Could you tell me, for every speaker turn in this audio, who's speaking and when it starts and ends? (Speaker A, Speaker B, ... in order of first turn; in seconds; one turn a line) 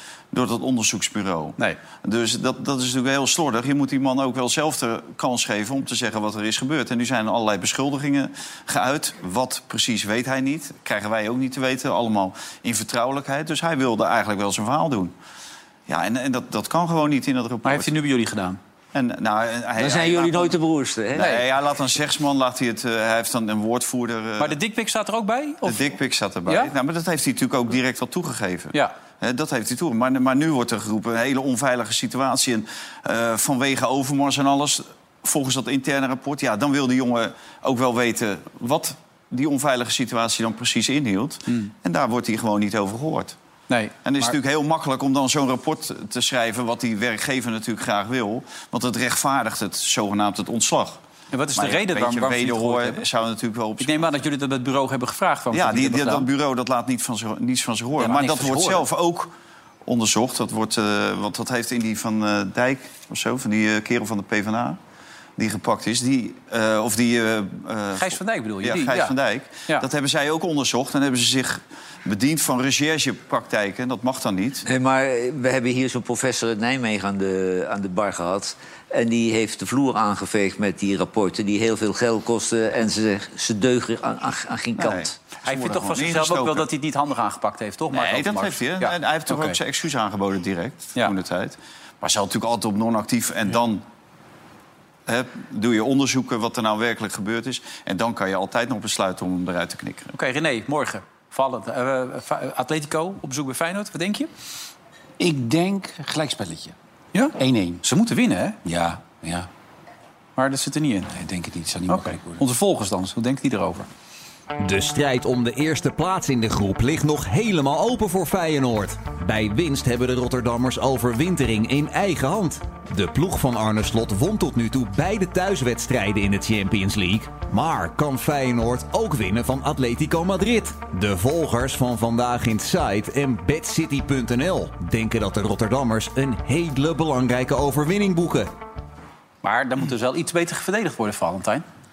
Speaker A: 0.3-15.1
Speaker A: 15.9-17.9
Speaker B: 17.6-18.6
Speaker A: 18.9-20.6
Speaker C: 19.8-21.3
Speaker A: 21.1-24.6
Speaker B: 21.2-21.4
Speaker B: 24.4-25.9
Speaker A: 25.6-43.3
Speaker B: 26.4-26.7
Speaker B: 43.7-44.3
Speaker A: 44.0-51.0
Speaker B: 51.3-53.0
Speaker A: 51.5-54.2
Speaker B: 53.8-56.3
Speaker A: 55.5-59.3
Speaker B: 58.0-58.8
Speaker A: 59.9-64.8
Speaker A: 65.4-74.7
Speaker B: 68.0-69.1
Speaker C: 74.6-85.1
Speaker A: 84.8-86.7
Speaker B: 85.4-89.6
Speaker A: 87.9-93.8
Speaker A: 95.0-100.1
Speaker B: 100.1-104.3
Speaker D: 105.2-106.7
Speaker B: 107.1-108.6
Speaker D: 107.3-107.8
Speaker D: 108.6-109.5
Speaker B: 110.4-111.1
Speaker D: 111.1-112.4
Speaker B: 111.9-113.9
Speaker E: 114.6-138.5
Speaker B: 139.4-141.6